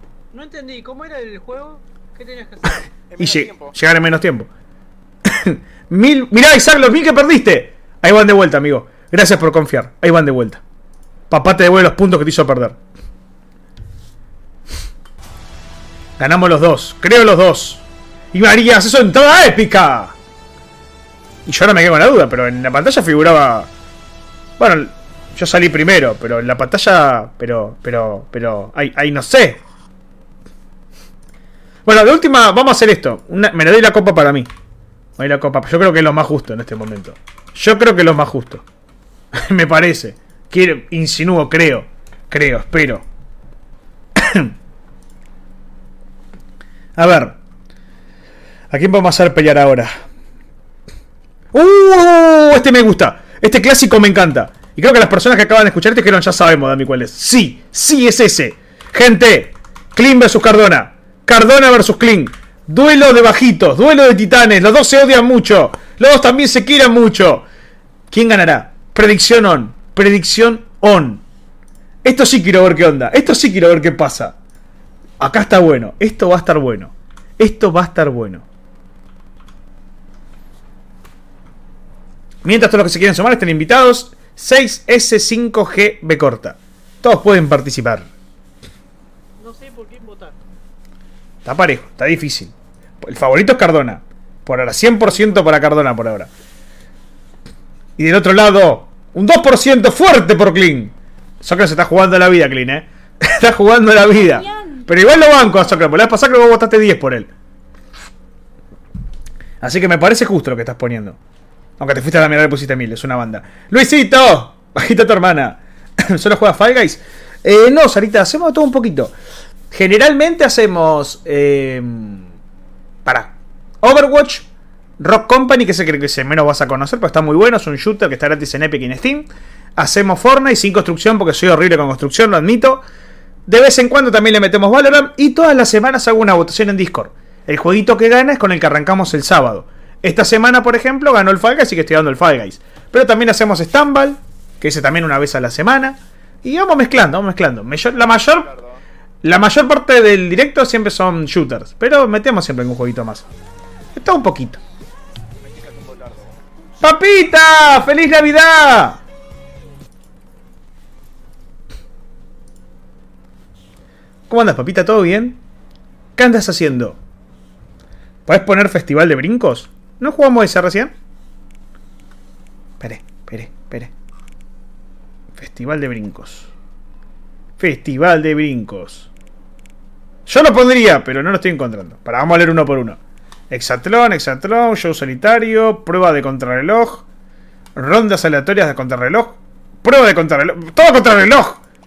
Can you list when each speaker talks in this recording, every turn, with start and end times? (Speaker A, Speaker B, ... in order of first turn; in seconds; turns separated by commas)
Speaker A: 0.3-2.9, Speaker B: 3.1-3.8, Speaker C: 3.2-4.5, Speaker C: 5.2-10.6, Speaker C: 11.3-12.8, Speaker C: 16.2-20.1, Speaker C: 21.5-23.7, Speaker C: 24.6-29.6, Speaker C: 31.9-34.5, Speaker C: 35.2-38.6, Speaker C: 39.3-43.0, Speaker C: 44.2-44.5, Speaker C: 47.0-47.4, Speaker C: 48.7-50.0, Speaker C: 51.5-67.4, Speaker C: 68.1-71.2, Speaker C: 72.0-74.3, Speaker C: 75.2-78.5, Speaker C: 82.4-88.1, Speaker A: 89.4-90.4, Speaker C: 91.5-96.3, Speaker C: 98.0-107.3, Speaker C: 109.6-111.2, Speaker C: 111.8-119.1, Speaker C: 119.7-122.3, Speaker C: 123.0-124.5, Speaker C: 125.0-132.8, Speaker C: 133.5-148.5, Speaker B: 147.9-148.8, Speaker C: 149.2-153.3, Speaker C: 153.9-154.6, Speaker B: 155.4-156.4, Speaker C: 156.8-159.0, Speaker C: 164.3-165.4, Speaker C: 166.2-167.0, Speaker C: 168.3-170.9, Speaker C: 172.8-173.9, Speaker C: 175.4-176.5, Speaker C: 177.6-179.1, Speaker C: 180.3-183.0, Speaker C: 183.5-187.1, Speaker C: 187.8-191.6